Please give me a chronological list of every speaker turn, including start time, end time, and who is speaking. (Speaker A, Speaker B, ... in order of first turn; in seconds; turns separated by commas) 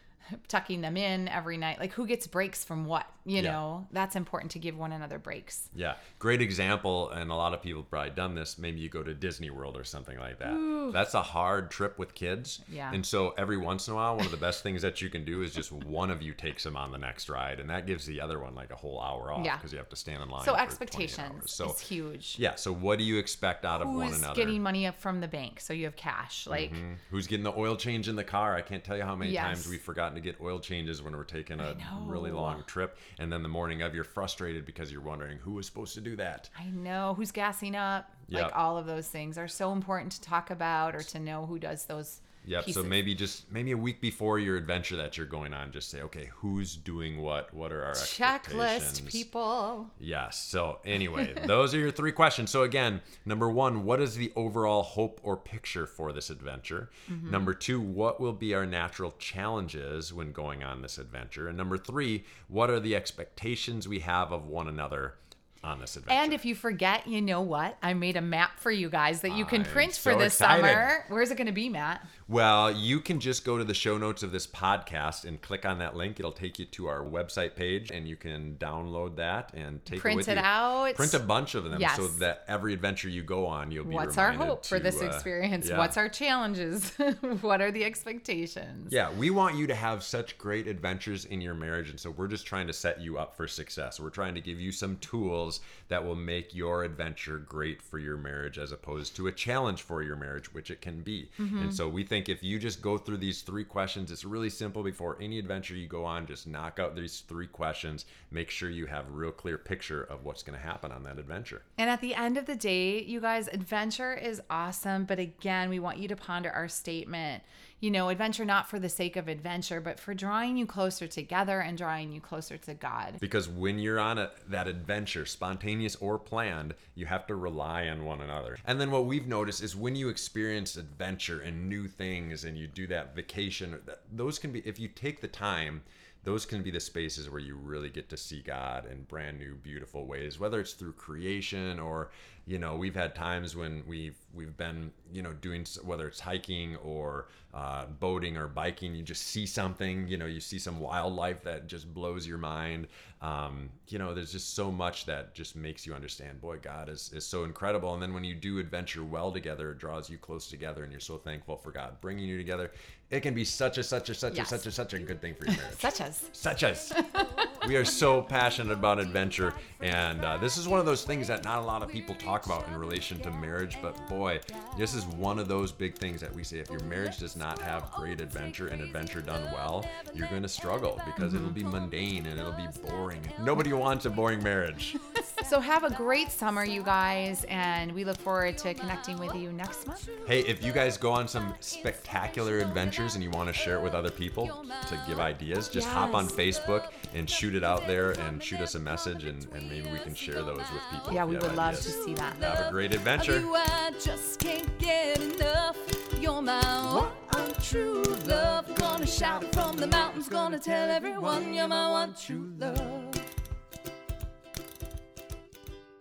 Speaker A: 0.3-5.7, Speaker B: 5.7-21.8, Speaker A: 10.4-11.0, Speaker A: 12.7-13.0, Speaker A: 19.4-19.6, Speaker A: 20.4-22.4, Speaker B: 22.4-24.6, Speaker A: 23.8-26.8, Speaker B: 26.5-36.5, Speaker A: 29.2-29.8, Speaker A: 31.6-32.6, Speaker A: 36.5-43.0, Speaker B: 38.3-38.6, Speaker B: 42.4-49.2, Speaker A: 48.0-49.9, Speaker B: 50.0-66.4, Speaker A: 57.1-57.5, Speaker A: 66.1-72.1, Speaker B: 69.3-70.9, Speaker B: 72.3-86.0, Speaker A: 79.9-82.2, Speaker A: 83.8-89.0, Speaker B: 88.9-111.7, Speaker A: 101.4-101.8, Speaker A: 111.8-123.2, Speaker B: 123.2-185.0, Speaker A: 164.3-164.7, Speaker A: 165.5-166.3, Speaker C: 166.4-175.4, Speaker A: 166.9-167.3, Speaker C: 176.7-213.3, Speaker A: 181.2-181.6, Speaker A: 185.4-190.1, Speaker B: 190.2-203.5, Speaker A: 195.7-196.4, Speaker A: 201.1-202.6